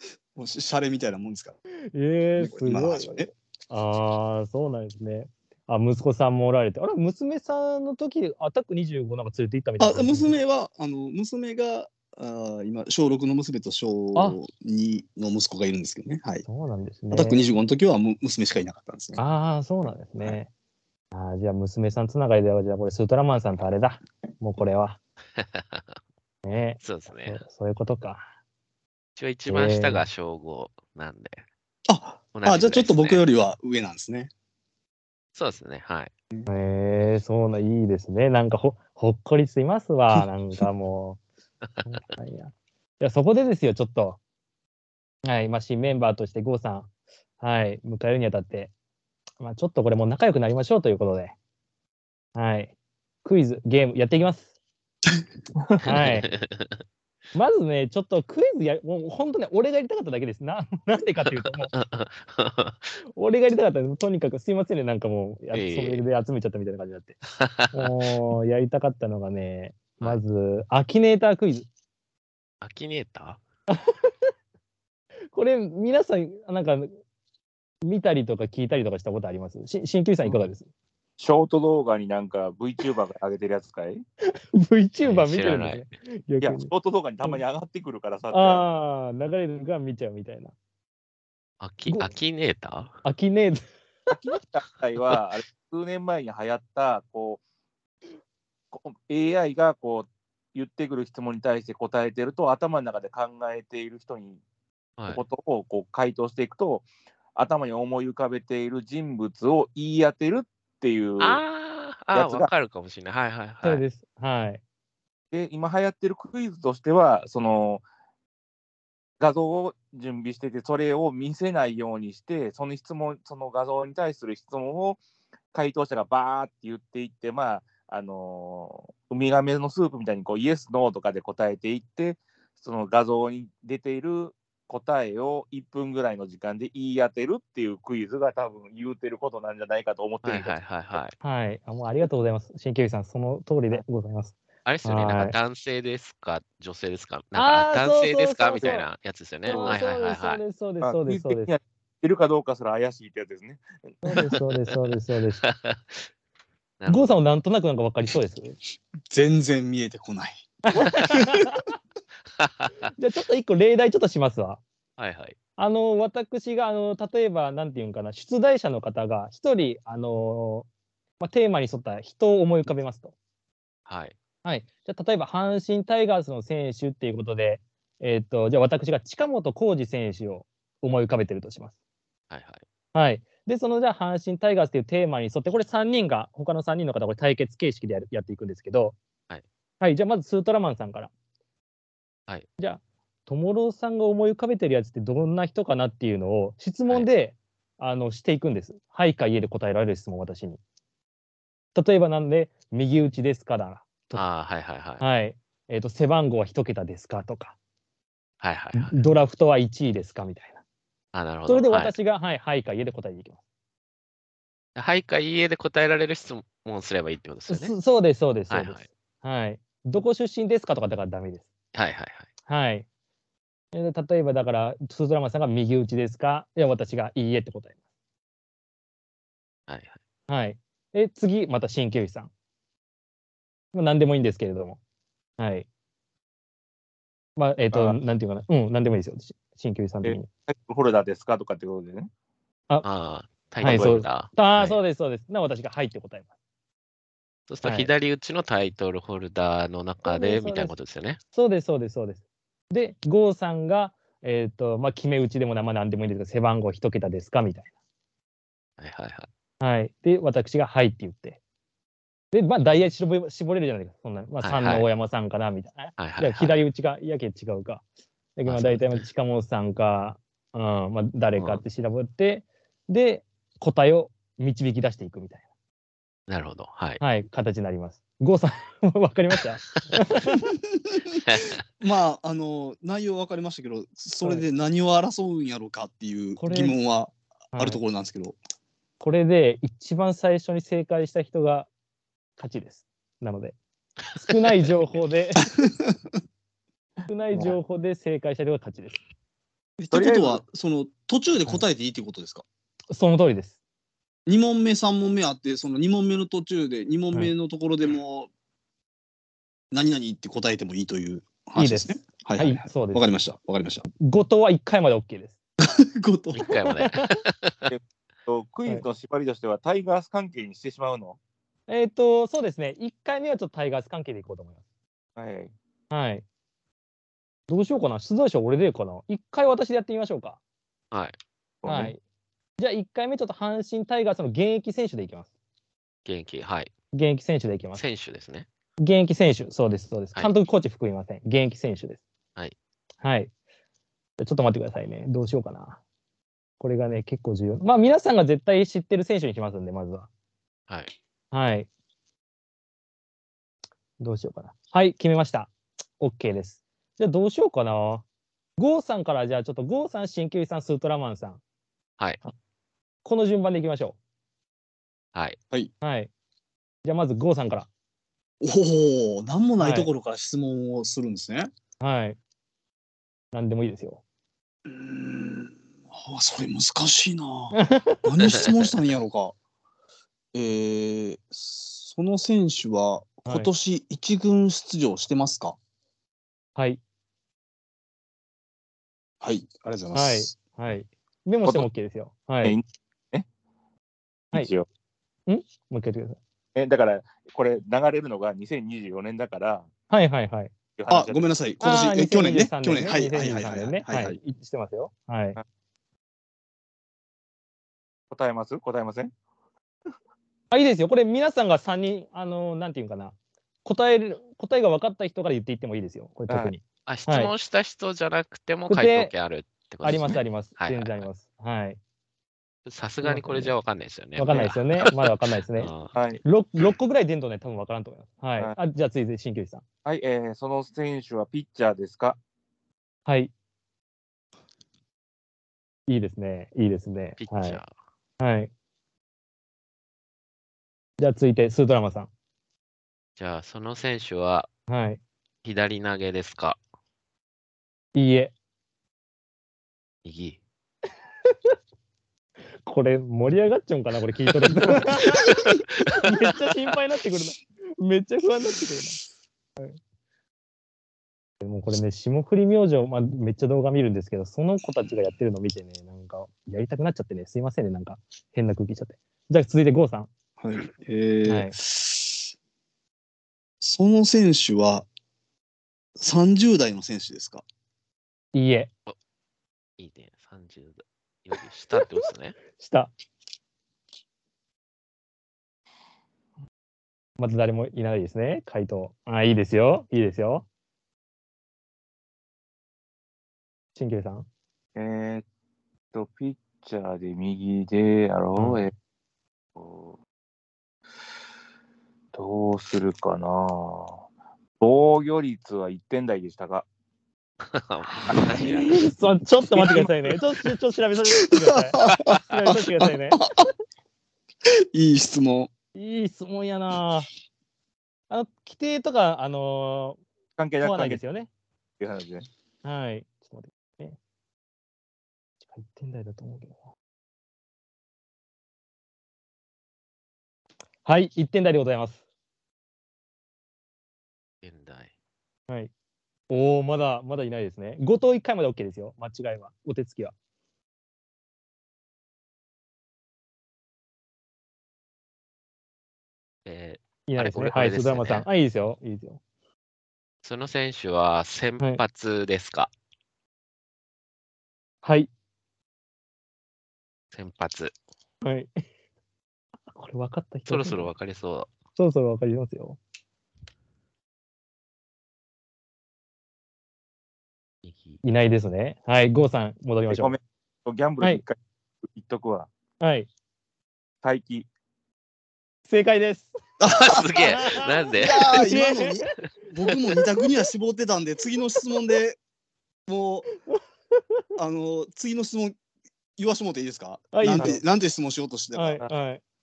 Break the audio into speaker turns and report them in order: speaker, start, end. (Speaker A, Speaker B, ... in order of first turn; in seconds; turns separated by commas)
Speaker A: 0.3-1.6, Speaker B: 1.9-10.3, Speaker A: 2.4-3.3, Speaker A: 9.8-16.4, Speaker B: 16.4-17.4, Speaker A: 17.1-19.2, Speaker B: 19.2-20.5, Speaker B: 21.1-25.0, Speaker C: 25.4-25.9, Speaker B: 26.4-28.2, Speaker C: 26.8-27.4, Speaker C: 29.2-31.4, Speaker B: 29.5-30.0, Speaker A: 31.9-34.3, Speaker C: 32.3-33.2, Speaker C: 35.3-36.1, Speaker B: 36.5-41.2, Speaker B: 41.8-44.2, Speaker B: 45.2-46.9, Speaker B: 47.4-48.7, Speaker B: 49.4-51.3, Speaker B: 52.3-54.5, Speaker B: 55.8-56.3, Speaker C: 55.9-56.8, Speaker B: 57.3-61.7, Speaker C: 61.7-62.9, Speaker B: 63.1-67.2, Speaker C: 65.5-66.0, Speaker C: 67.3-67.9, Speaker B: 67.7-71.7, Speaker C: 72.6-73.4, Speaker B: 73.7-74.1, Speaker B: 75.3-77.0, Speaker B: 77.8-80.7, Speaker D: 81.2-84.0, Speaker B: 84.2-86.7, Speaker C: 85.0-85.8, Speaker D: 86.4-88.7, Speaker B: 88.3-90.5, Speaker C: 91.6-93.0, Speaker B: 91.9-92.1, Speaker B: 93.0-93.6, Speaker D: 94.1-97.4, Speaker D: 98.7-104.4, Speaker D: 105.1-111.4, Speaker C: 111.2-113.8, Speaker D: 112.1-112.5, Speaker B: 113.6-114.6, Speaker D: 115.3-117.8, Speaker D: 119.2-125.0, Speaker D: 125.5-140.6, Speaker C: 140.2-141.1, Speaker B: 141.2-145.3, Speaker C: 144.6-150.4, Speaker B: 147.3-148.9, Speaker B: 149.4-151.5, Speaker D: 149.5-149.8, Speaker D: 150.8-153.9, Speaker B: 154.0-155.4, Speaker C: 155.4-156.1, Speaker C: 156.8-157.2, Speaker B: 156.9-158.6, Speaker A: 159.1-160.5, Speaker B: 160.7-161.7, Speaker A: 161.0-161.4, Speaker C: 162.4-162.9, Speaker B: 163.0-164.6, Speaker C: 165.0-165.4, Speaker B: 165.6-170.7, Speaker B: 171.2-173.1, Speaker C: 173.9-174.2, Speaker B: 174.4-181.7, Speaker C: 182.3-182.6, Speaker B: 182.9-188.9, Speaker B: 189.8-191.1, Speaker B: 192.6-200.6, Speaker B: 201.7-204.2, Speaker C: 204.1-205.0, Speaker B: 205.0-207.5, Speaker C: 208.4-208.9, Speaker B: 208.7-210.6, Speaker C: 211.1-211.9, Speaker B: 211.5-213.4, Speaker C: 214.8-217.7, Speaker B: 217.5-221.5, Speaker C: 218.5-218.8, Speaker C: 221.7-222.3, Speaker B: 222.5-222.8, Speaker B: 223.7-227.7, Speaker C: 229.7-230.0, Speaker B: 230.3-232.3, Speaker B: 233.7-234.8, Speaker B: 235.4-235.7, Speaker B: 237.4-240.3, Speaker D: 237.7-238.0, Speaker D: 240.0-242.1, Speaker C: 242.8-244.8, Speaker B: 243.6-246.3, Speaker D: 243.6-244.0, Speaker C: 247.5-251.2, Speaker B: 247.6-247.9, Speaker B: 250.0-250.7, Speaker B: 251.3-257.7, Speaker C: 258.8-259.3, Speaker B: 259.6-261.4, Speaker B: 262.3-267.8, Speaker C: 264.4-264.9, Speaker C: 266.0-266.6, Speaker B: 268.4-275.4, Speaker C: 268.4-269.1, Speaker C: 271.4-271.6, Speaker C: 276.3-277.0, Speaker B: 277.0-280.5, Speaker A: 280.9-281.2, Speaker C: 281.2-281.6, Speaker A: 281.8-288.4, Speaker B: 286.4-286.8, Speaker B: 287.5-287.8, Speaker B: 289.0-291.7, Speaker B: 292.4-293.6, Speaker B: 294.1-295.5, Speaker A: 295.6-295.9, Speaker B: 297.1-299.0, Speaker A: 299.8-302.4, Speaker D: 299.9-300.4, Speaker B: 302.9-303.6, Speaker A: 304.3-308.3, Speaker A: 309.7-313.9, Speaker B: 311.6-313.1, Speaker B: 313.9-315.4, Speaker A: 315.6-316.4, Speaker C: 316.3-317.7, Speaker B: 316.5-317.1, Speaker D: 317.7-321.2, Speaker B: 321.7-324.6, Speaker D: 325.1-325.5, Speaker B: 325.9-326.2, Speaker B: 327.5-330.4, Speaker D: 331.6-331.9, Speaker B: 331.6-332.0, Speaker B: 332.6-335.3, Speaker C: 336.1-336.7, Speaker B: 336.9-337.8, Speaker C: 337.7-338.5, Speaker B: 338.8-342.0, Speaker B: 343.0-343.3, Speaker B: 344.2-345.8, Speaker B: 346.6-350.1, Speaker B: 351.3-351.7, Speaker B: 354.0-358.0, Speaker B: 358.6-361.4, Speaker B: 363.0-364.0, Speaker B: 365.8-366.1, Speaker B: 366.8-367.7, Speaker A: 368.4-371.5, Speaker B: 369.6-369.9, Speaker B: 371.8-372.2, Speaker B: 373.3-374.0, Speaker A: 374.6-379.3, Speaker B: 377.5-378.1, Speaker A: 380.3-385.6, Speaker B: 383.2-383.5, Speaker B: 386.6-386.8, Speaker A: 389.2-390.3, Speaker B: 389.9-392.6, Speaker D: 392.4-393.2, Speaker D: 394.3-394.6, Speaker B: 395.3-396.2, Speaker D: 396.5-399.7, Speaker B: 399.9-400.5, Speaker D: 400.8-401.3, Speaker A: 400.9-404.2, Speaker B: 401.6-405.4, Speaker D: 408.1-409.1, Speaker B: 410.5-417.3, Speaker D: 416.3-416.5, Speaker C: 416.9-421.1, Speaker B: 418.7-419.1, Speaker B: 419.8-421.8, Speaker C: 422.6-424.9, Speaker B: 423.0-423.5, Speaker B: 424.2-425.7, Speaker C: 425.6-425.9, Speaker D: 425.9-426.2, Speaker B: 426.2-429.6, Speaker D: 429.8-432.2, Speaker B: 433.1-433.3, Speaker B: 435.9-437.6, Speaker C: 437.2-437.7, Speaker B: 438.2-438.5, Speaker B: 441.0-442.1, Speaker C: 443.2-444.5, Speaker B: 444.7-445.0, Speaker C: 445.4-446.6, Speaker B: 447.9-448.3, Speaker C: 450.0-450.4, Speaker B: 452.6-455.3, Speaker C: 454.5-455.9, Speaker B: 456.0-459.0, Speaker B: 461.4-470.1, Speaker A: 470.4-472.3, Speaker B: 471.2-471.6, Speaker A: 473.6-474.9, Speaker A: 476.0-477.4, Speaker B: 478.3-478.7, Speaker C: 479.8-482.4, Speaker B: 482.6-482.9, Speaker B: 487.2-490.4, Speaker B: 493.8-494.3, Speaker D: 494.8-495.2, Speaker D: 495.9-498.7, Speaker D: 499.6-499.9, Speaker D: 502.1-504.0, Speaker D: 504.6-506.6, Speaker C: 507.5-508.7, Speaker B: 507.9-513.2, Speaker A: 509.5-510.1, Speaker A: 511.4-513.5, Speaker A: 514.5-515.5, Speaker B: 515.7-517.1, Speaker B: 518.1-520.0, Speaker D: 520.4-521.0, Speaker B: 520.6-521.3, Speaker D: 521.8-522.2, Speaker B: 522.6-524.0, Speaker B: 525.5-526.5, Speaker B: 530.8-532.0, Speaker C: 534.4-534.9, Speaker B: 536.3-540.1, Speaker C: 546.5-548.3, Speaker B: 547.1-549.2, Speaker C: 550.2-552.7, Speaker B: 554.8-555.1, Speaker C: 557.1-557.7, Speaker B: 558.2-558.5, Speaker B: 559.7-560.9, Speaker C: 560.5-561.5, Speaker B: 561.8-562.8, Speaker C: 567.6-568.0, Speaker B: 568.0-570.1, Speaker D: 569.9-571.4, Speaker D: 571.9-572.5, Speaker B: 572.8-573.1, Speaker D: 574.0-574.5, Speaker B: 575.7-576.3, Speaker A: 576.6-577.2, Speaker C: 576.7-578.4, Speaker B: 577.1-579.0, Speaker A: 578.0-582.2, Speaker B: 579.7-580.0, Speaker A: 582.9-583.3, Speaker A: 584.4-585.5, Speaker A: 586.2-588.8, Speaker B: 587.1-587.6, Speaker B: 588.5-589.2